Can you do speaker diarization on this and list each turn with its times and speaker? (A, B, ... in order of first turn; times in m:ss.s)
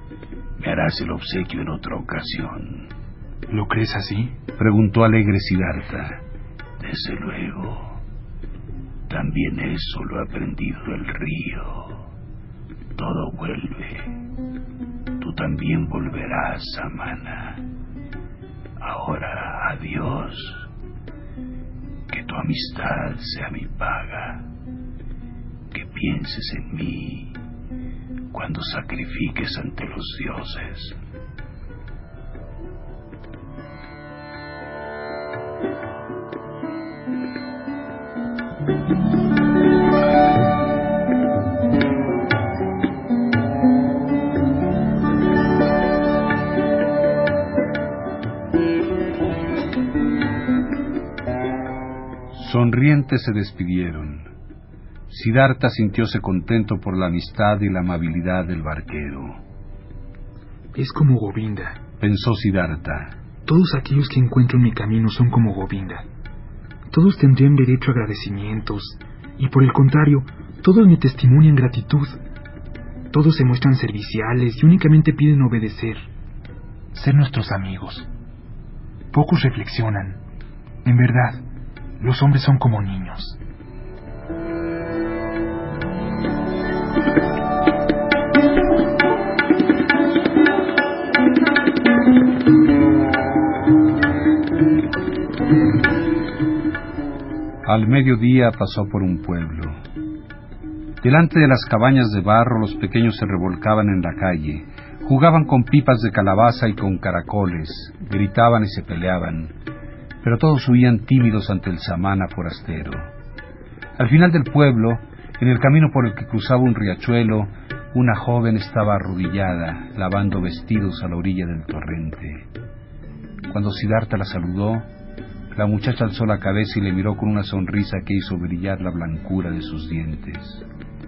0:00.6-0:02.9 A
0:03.5-0:04.4 B
0:04.6-0:06.2 A
0:06.8-0:08.0 A
0:09.1-0:12.1 A
0:13.0-0:14.1 A
0:15.2-0:17.6 A
0:18.8-0:20.7 A
0:22.1-0:24.5 A
0:25.7-0:27.4 A
0:28.3-0:31.0 A
0:52.3-0:54.3 A
0:55.1-0:59.4 A
1:00.7-1:01.8 B
1:02.0-1:03.2 A
1:03.5-1:06.1 B
1:06.9-1:12.2 B
1:13.1-1:16.0 B
1:16.9-1:18.1 B
1:19.1-1:20.2 B
1:20.8-1:21.4 B
1:22.0-1:23.4 B
1:37.6-1:39.8 A
1:41.0-1:49.6 A
1:50.2-1:53.0 A
1:54.0-2:02.5 A
2:03.5-2:04.9 A
2:05.5-2:10.7 A